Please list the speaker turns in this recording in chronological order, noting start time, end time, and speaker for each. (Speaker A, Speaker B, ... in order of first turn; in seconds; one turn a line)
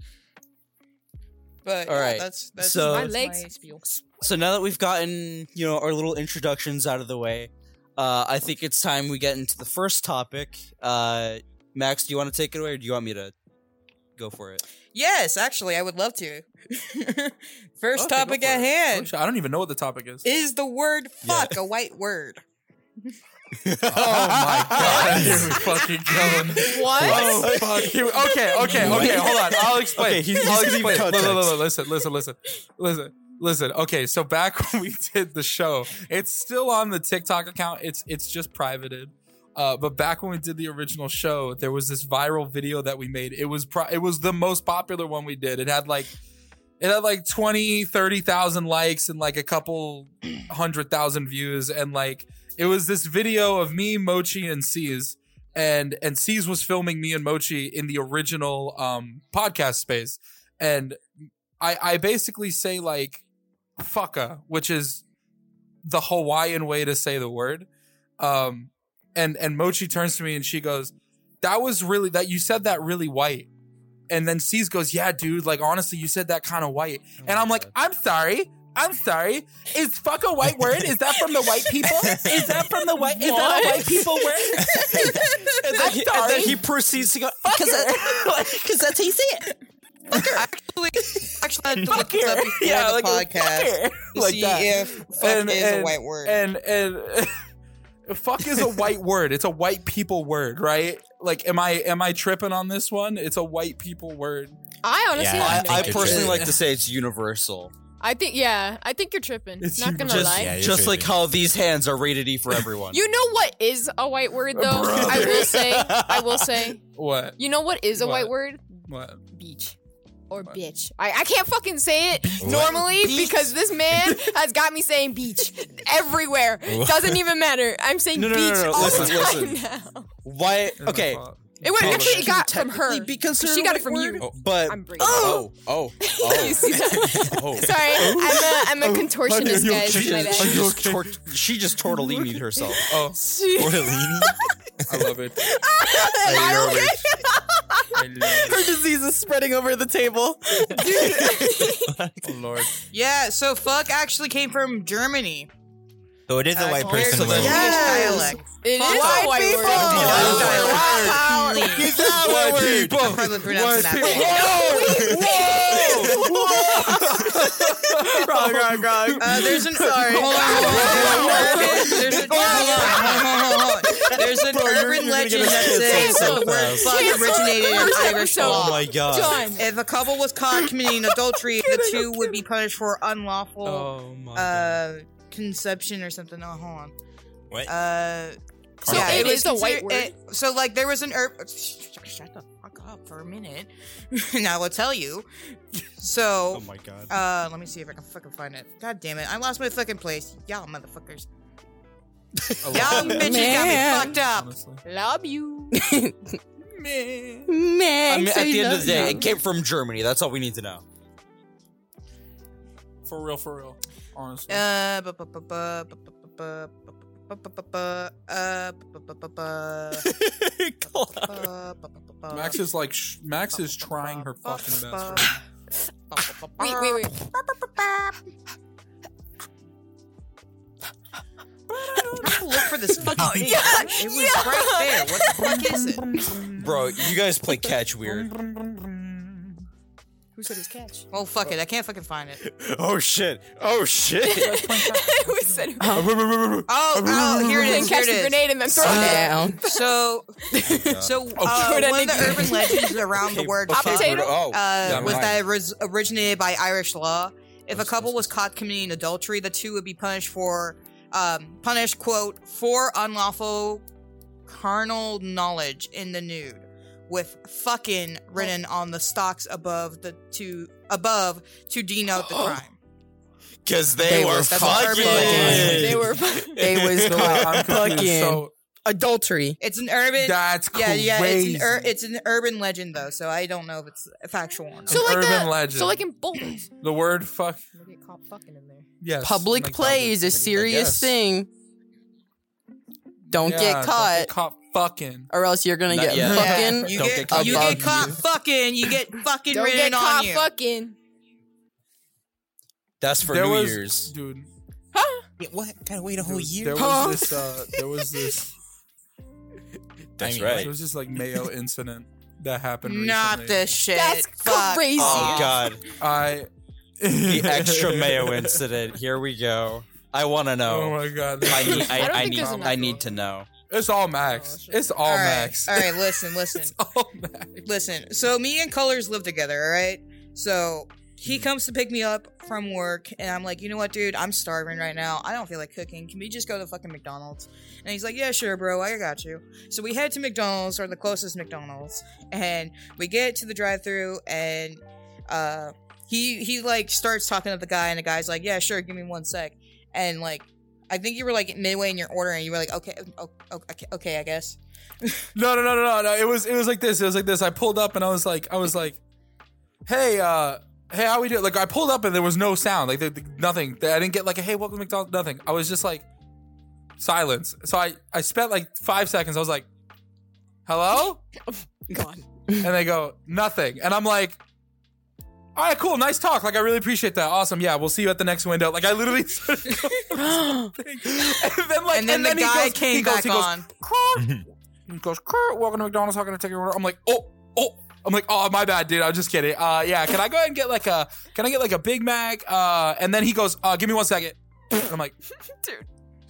Speaker A: 1.6-3.9
Speaker B: 1.9-3.1
Speaker C: 2.8-4.0
Speaker B: 4.2-13.3
Speaker B: 14.2-14.6
Speaker A: 14.9-19.1
Speaker D: 17.9-20.2
Speaker A: 20.2-22.4
Speaker B: 21.2-21.5
Speaker B: 23.6-31.6
Speaker D: 23.9-46.1
Speaker E: 25.1-25.6
Speaker C: 26.5-27.6
Speaker C: 28.6-29.4
Speaker E: 28.7-29.2
Speaker D: 46.8-61.0
Speaker D: 61.6-63.2
Speaker D: 63.8-65.0
Speaker D: 65.8-67.7
Speaker D: 68.2-73.5
Speaker D: 74.1-85.2
Speaker B: 77.2-77.7
Speaker E: 82.0-82.6
Speaker C: 83.0-86.6
Speaker B: 85.4-89.5
Speaker A: 90.1-96.4
Speaker D: 91.8-97.3
Speaker D: 98.1-104.6
Speaker C: 104.8-106.4
Speaker E: 105.1-106.5
Speaker B: 105.4-107.7
Speaker D: 106.1-106.5
Speaker C: 108.0-110.6
Speaker D: 109.6-110.5
Speaker B: 110.1-113.0
Speaker E: 110.2-111.2
Speaker C: 112.9-116.8
Speaker D: 114.5-115.6
Speaker B: 115.0-116.3
Speaker D: 116.9-117.4
Speaker C: 117.4-118.6
Speaker D: 118.0-118.3
Speaker D: 118.9-119.2
Speaker C: 119.3-119.8
Speaker C: 120.3-130.1
Speaker D: 122.2-123.3
Speaker E: 122.4-122.8
Speaker D: 123.9-124.2
Speaker E: 126.7-127.2
Speaker B: 128.1-129.6
Speaker D: 128.7-129.4
Speaker B: 130.2-142.9
Speaker D: 130.8-132.3
Speaker C: 131.6-135.5
Speaker F: 135.1-135.4
Speaker C: 136.0-140.7
Speaker D: 139.4-141.2
Speaker D: 142.9-143.2
Speaker F: 143.2-144.3
Speaker E: 143.5-144.4
Speaker D: 144.9-145.5
Speaker F: 145.4-151.6
Speaker C: 145.9-146.8
Speaker E: 146.2-147.0
Speaker D: 147.9-148.6
Speaker C: 150.7-151.9
Speaker E: 151.9-152.4
Speaker D: 152.2-152.7
Speaker A: 152.9-155.5
Speaker E: 156.3-157.9
Speaker A: 156.5-162.0
Speaker C: 156.9-161.2
Speaker B: 157.0-157.9
Speaker D: 157.2-157.6
Speaker F: 157.3-161.5
Speaker D: 159.7-173.3
Speaker B: 159.8-163.0
Speaker E: 159.8-160.8
Speaker E: 161.8-163.0
Speaker A: 162.9-164.6
Speaker C: 164.0-166.3
Speaker B: 164.2-167.3
Speaker F: 166.6-167.2
Speaker F: 167.9-171.9
Speaker A: 169.2-179.0
Speaker C: 170.5-173.2
Speaker B: 170.8-173.2
Speaker B: 174.1-177.4
Speaker C: 175.7-179.7
Speaker B: 178.2-179.5
Speaker A: 179.5-186.9
Speaker D: 183.6-184.6
Speaker B: 184.2-184.8
Speaker A: 187.7-195.3
Speaker C: 188.8-190.1
Speaker E: 188.8-189.3
Speaker A: 195.8-201.3
Speaker B: 196.5-197.1
Speaker D: 202.6-204.8
Speaker A: 202.7-204.5
Speaker F: 202.8-204.2
Speaker C: 204.8-205.8
Speaker F: 205.7-206.4
Speaker D: 206.6-207.5
Speaker F: 207.5-209.3
Speaker B: 208.1-210.8
Speaker D: 208.8-209.2
Speaker D: 213.1-214.6
Speaker A: 214.5-220.1
Speaker B: 220.0-221.4
Speaker A: 220.8-222.6
Speaker D: 222.3-225.4
Speaker A: 223.5-225.3
Speaker A: 226.1-228.1
Speaker C: 226.6-227.2
Speaker A: 232.2-236.1
Speaker F: 233.1-233.6
Speaker C: 233.2-235.6
Speaker D: 235.4-236.8
Speaker B: 236.6-238.3
Speaker D: 238.0-239.6
Speaker C: 240.3-241.1
Speaker A: 241.1-242.4
Speaker B: 242.4-244.6
Speaker C: 244.2-246.0
Speaker D: 244.3-247.9
Speaker F: 245.8-246.2
Speaker A: 246.7-263.8
Speaker C: 247.6-249.9
Speaker F: 248.8-249.6
Speaker F: 250.5-250.9
Speaker B: 250.8-251.1
Speaker D: 251.3-252.4
Speaker C: 251.4-253.1
Speaker B: 253.1-255.4
Speaker C: 253.7-254.5
Speaker D: 254.8-255.3
Speaker B: 257.8-258.2
Speaker A: 264.5-272.7
Speaker B: 273.6-276.1
Speaker F: 274.0-276.0
Speaker A: 274.5-275.8
Speaker D: 274.9-276.0
Speaker C: 275.1-276.8
Speaker F: 276.6-279.6
Speaker D: 276.7-278.5
Speaker B: 277.1-277.3
Speaker A: 279.6-285.1
Speaker D: 280.2-281.9
Speaker D: 284.9-286.0
Speaker C: 284.9-286.7
Speaker D: 286.8-287.6
Speaker C: 287.7-288.9
Speaker D: 289.0-291.0
Speaker F: 289.2-291.5
Speaker B: 290.5-291.0
Speaker D: 293.3-295.3
Speaker F: 293.3-294.3
Speaker F: 295.3-298.2
Speaker B: 295.9-298.1
Speaker D: 296.0-298.1
Speaker A: 296.2-300.5
Speaker C: 299.5-300.9
Speaker B: 303.0-304.1
Speaker D: 303.3-304.5
Speaker C: 304.9-305.2
Speaker E: 305.4-307.1
Speaker D: 306.2-308.5
Speaker F: 306.8-307.3
Speaker B: 310.2-310.7
Speaker E: 310.2-310.7
Speaker D: 310.3-313.6
Speaker A: 312.8-315.5
Speaker C: 313.9-315.6
Speaker B: 314.9-315.8
Speaker D: 315.9-316.5
Speaker D: 317.0-318.6
Speaker B: 317.2-323.5
Speaker D: 320.7-323.0
Speaker C: 321.7-323.1
Speaker D: 323.6-327.6
Speaker C: 324.2-324.9
Speaker A: 325.0-326.7
Speaker A: 327.6-355.2
Speaker D: 355.3-359.0
Speaker D: 359.9-366.1
Speaker D: 367.0-369.7
Speaker D: 370.6-371.2
Speaker F: 371.9-372.6
Speaker D: 372.6-374.4
Speaker D: 375.6-395.1
Speaker F: 380.1-380.7
Speaker A: 381.9-383.6
Speaker E: 384.1-384.4
Speaker C: 395.5-395.9